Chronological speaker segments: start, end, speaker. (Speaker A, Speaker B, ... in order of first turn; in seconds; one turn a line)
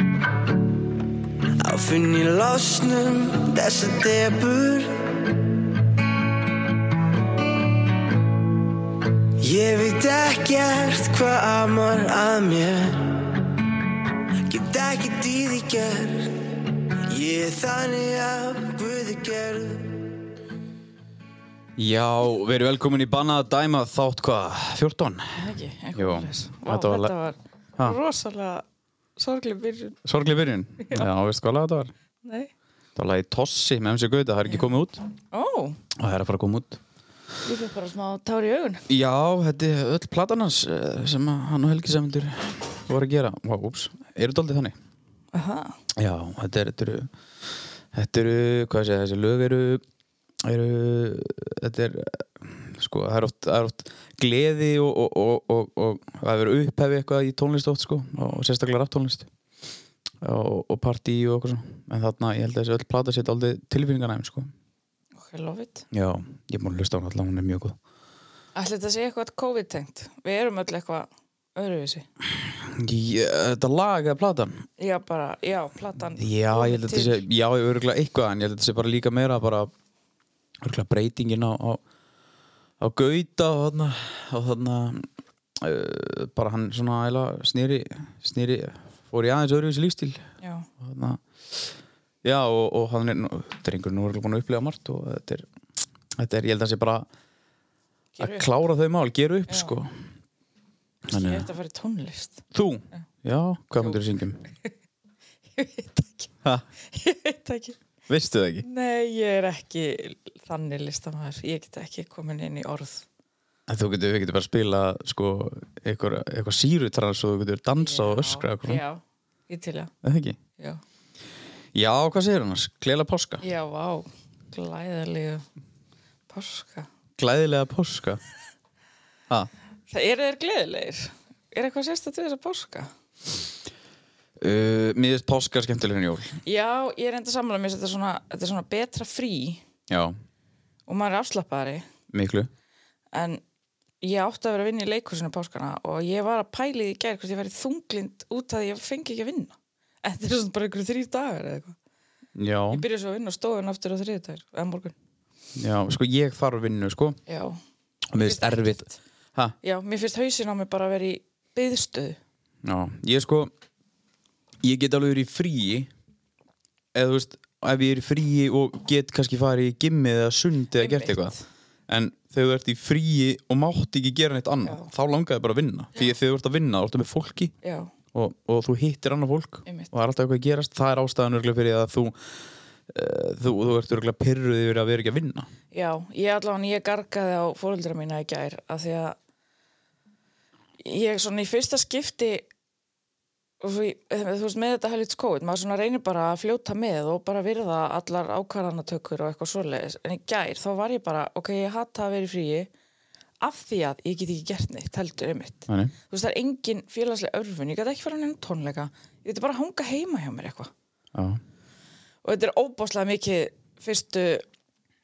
Speaker A: 1.6-5.0
Speaker A: 9.4-13.2
Speaker A: 14.4-16.5
Speaker A: 17.1-20.1
Speaker B: 21.8-25.4
Speaker C: 25.3-28.6
Speaker B: 25.9-27.1
Speaker C: 29.2-30.0
Speaker B: 30.0-31.9
Speaker C: 30.8-31.1
Speaker C: 32.2-32.5
Speaker B: 33.0-35.0
Speaker C: 35.3-35.8
Speaker B: 36.0-36.8
Speaker C: 37.4-38.9
Speaker B: 38.9-44.7
Speaker C: 45.3-45.8
Speaker B: 45.9-47.1
Speaker B: 47.9-49.8
Speaker B: 50.4-59.3
Speaker B: 60.2-64.5
Speaker C: 65.2-65.8
Speaker B: 65.9-67.8
Speaker C: 68.5-72.0
Speaker B: 72.4-74.6
Speaker C: 74.8-77.2
Speaker B: 76.2-79.7
Speaker B: 80.6-81.8
Speaker B: 82.8-85.0
Speaker B: 85.6-90.2
Speaker C: 90.4-90.7
Speaker B: 90.8-91.7
Speaker B: 92.2-95.5
Speaker B: 96.2-97.1
Speaker C: 98.2-98.5
Speaker B: 98.2-99.9
Speaker C: 99.5-99.7
Speaker B: 101.1-101.5
Speaker C: 101.1-102.4
Speaker B: 102.5-104.4
Speaker C: 105.5-106.3
Speaker C: 106.8-107.8
Speaker B: 108.1-108.7
Speaker C: 108.6-113.0
Speaker B: 113.7-118.8
Speaker C: 117.8-119.9
Speaker B: 120.0-120.4
Speaker B: 121.7-123.4
Speaker C: 123.4-125.5
Speaker C: 126.3-126.9
Speaker B: 127.2-128.2
Speaker C: 129.9-132.9
Speaker B: 134.4-136.4
Speaker C: 136.4-139.6
Speaker B: 139.9-140.1
Speaker C: 140.9-141.8
Speaker B: 142.1-142.5
Speaker C: 143.1-143.4
Speaker C: 144.0-151.8
Speaker B: 152.3-152.8
Speaker C: 152.7-154.9
Speaker B: 155.6-157.2
Speaker C: 157.3-157.6
Speaker B: 158.1-159.6
Speaker C: 158.1-158.9
Speaker C: 159.6-162.2
Speaker B: 162.6-163.5
Speaker B: 164.6-165.9
Speaker B: 166.9-171.3
Speaker C: 170.8-171.4
Speaker B: 171.9-177.5
Speaker C: 177.6-177.9
Speaker B: 178.1-182.2
Speaker B: 182.9-185.5
Speaker C: 185.7-189.2
Speaker C: 190.8-192.5
Speaker C: 193.6-202.7
Speaker C: 203.4-210.7
Speaker B: 205.7-205.9
Speaker B: 211.1-211.4
Speaker C: 212.2-214.4